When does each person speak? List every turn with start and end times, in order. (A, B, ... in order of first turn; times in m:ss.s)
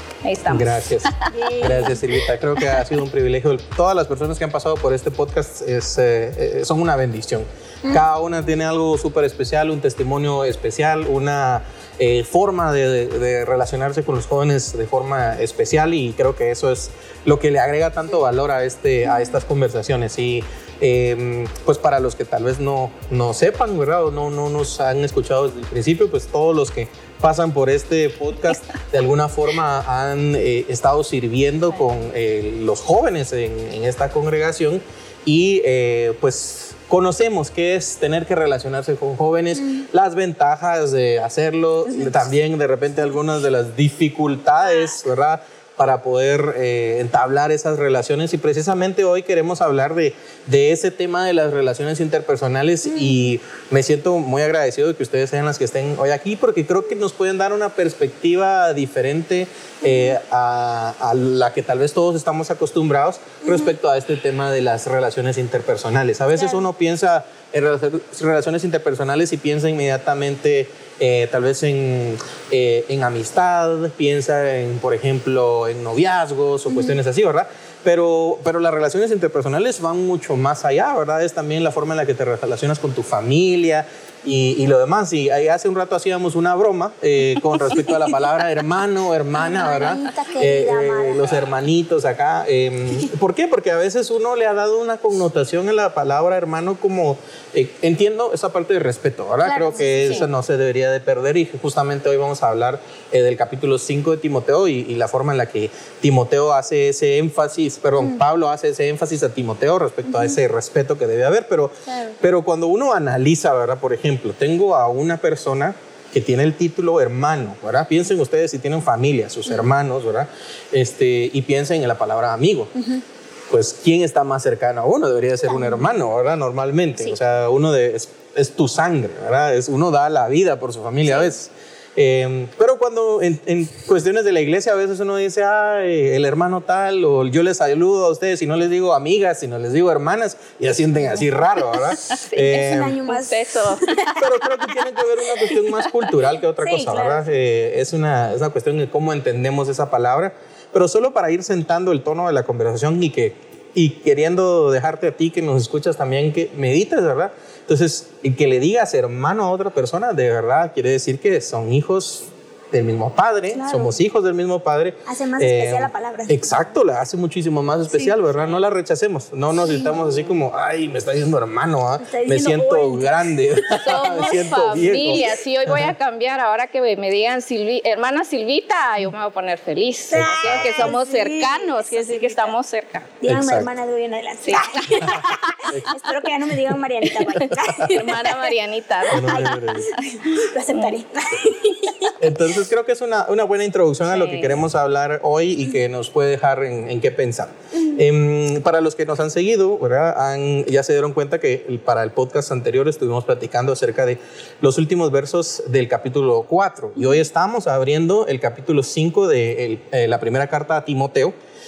0:00.2-0:01.3 A
0:00.5-2:02.9 B
0:01.3-0:02.0 C
1:29.4-1:31.4 C
1:39.4-1:40.2 C
1:51.9-1:52.2 C
2:03.5-2:23.0 B
2:05.5-2:05.9 C
2:22.1-2:23.9 A
2:22.5-2:24.2 C
2:24.1-2:55.9 B
2:26.6-2:27.3 C
2:43.5-2:44.0 C
2:45.1-2:46.5 C
2:52.0-2:54.3 C
2:53.8-3:03.2 A
3:00.1-3:02.5 C
3:00.2-3:00.9 B
3:03.2-3:08.5 C
3:03.2-3:03.7 B
3:04.4-3:05.7 A
3:07.9-3:09.6 A
3:09.1-3:09.9 B
3:09.1-3:12.2 C
3:10.3-3:10.8 A
3:12.2-3:31.3 B
3:14.1-3:14.6 A